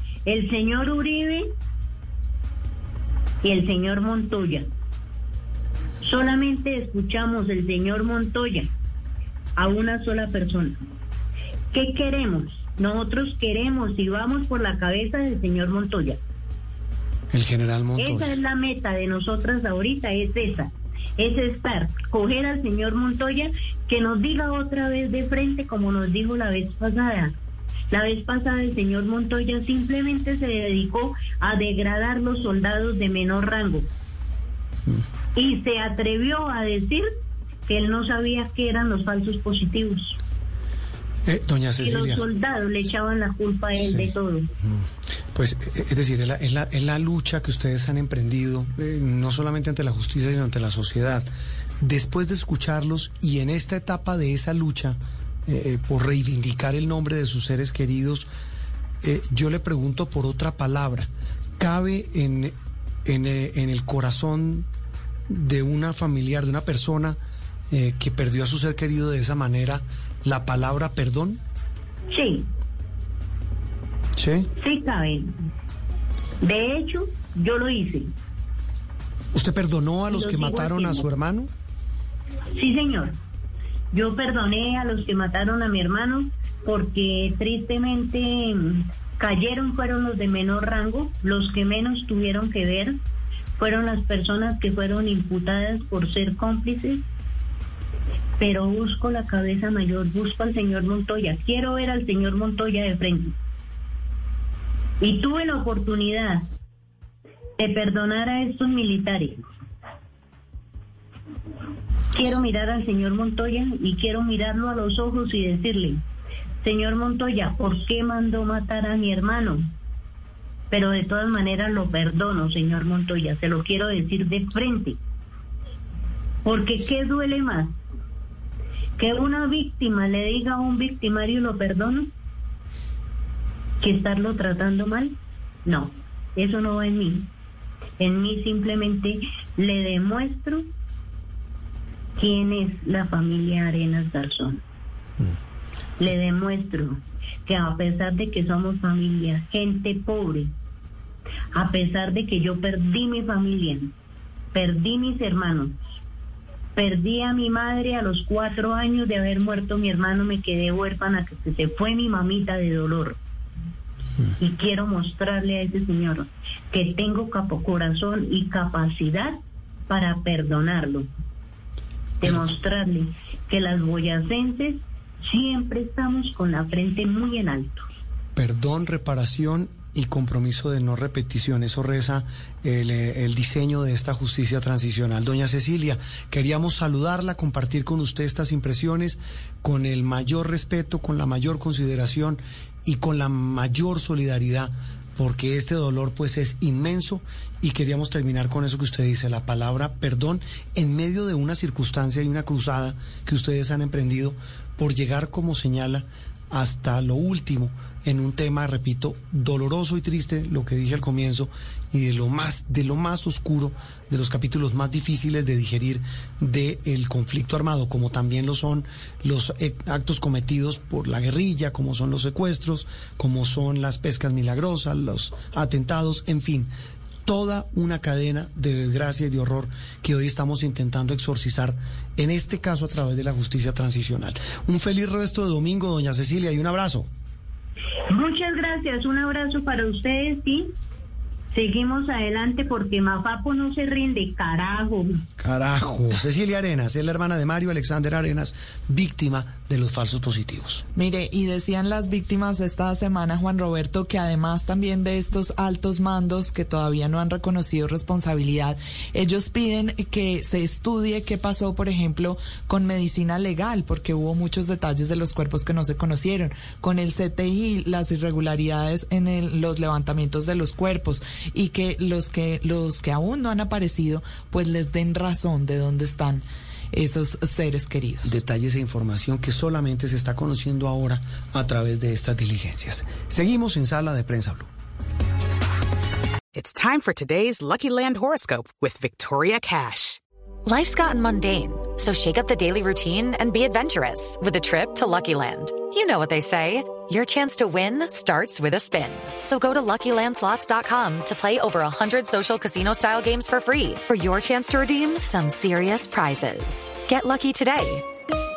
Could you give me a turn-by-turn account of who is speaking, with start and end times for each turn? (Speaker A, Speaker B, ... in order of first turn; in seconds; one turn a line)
Speaker A: 0.2-1.4
Speaker A: 3.4-4.6
Speaker A: 6.0-8.7
Speaker A: 9.6-10.8
Speaker A: 11.7-16.2
Speaker B: 17.3-18.3
Speaker A: 18.0-27.3
Speaker A: 27.9-33.9
Speaker A: 35.3-37.0
Speaker A: 37.7-40.2
Speaker B: 41.2-42.2
Speaker A: 41.8-44.5
Speaker B: 43.8-44.1
Speaker B: 44.6-51.3
Speaker B: 51.8-58.3
Speaker B: 59.0-62.5
Speaker B: 63.0-64.7
Speaker B: 65.3-67.2
Speaker B: 67.7-71.4
Speaker A: 72.1-72.4
Speaker B: 74.1-74.5
Speaker A: 74.6-75.3
Speaker A: 76.4-78.1
Speaker B: 79.3-81.5
Speaker A: 80.1-81.0
Speaker A: 82.5-83.2
Speaker A: 83.9-92.9
Speaker A: 93.6-97.0
Speaker A: 98.4-103.3
Speaker A: 105.0-106.4
Speaker A: 107.6-109.4
Speaker A: 112.1-116.0
Speaker A: 116.6-119.6
Speaker A: 120.7-125.0
Speaker A: 126.4-127.7
Speaker A: 129.0-132.1
Speaker A: 133.8-137.3
Speaker A: 138.0-140.6
Speaker A: 142.2-144.6
Speaker A: 146.0-150.5
Speaker A: 151.5-153.9
Speaker A: 154.5-155.7
Speaker A: 156.8-163.2
Speaker A: 164.4-169.3
Speaker A: 169.9-171.1
Speaker A: 172.2-177.8
Speaker B: 172.2-172.5
Speaker B: 178.3-226.7
Speaker B: 227.2-237.1
Speaker A: 238.1-240.7
Speaker A: 241.5-245.1
Speaker B: 245.4-250.8
Speaker C: 250.9-278.4
Speaker B: 278.2-284.7
Speaker D: 286.5-288.4
Speaker D: 288.9-289.9
Speaker E: 290.6-308.0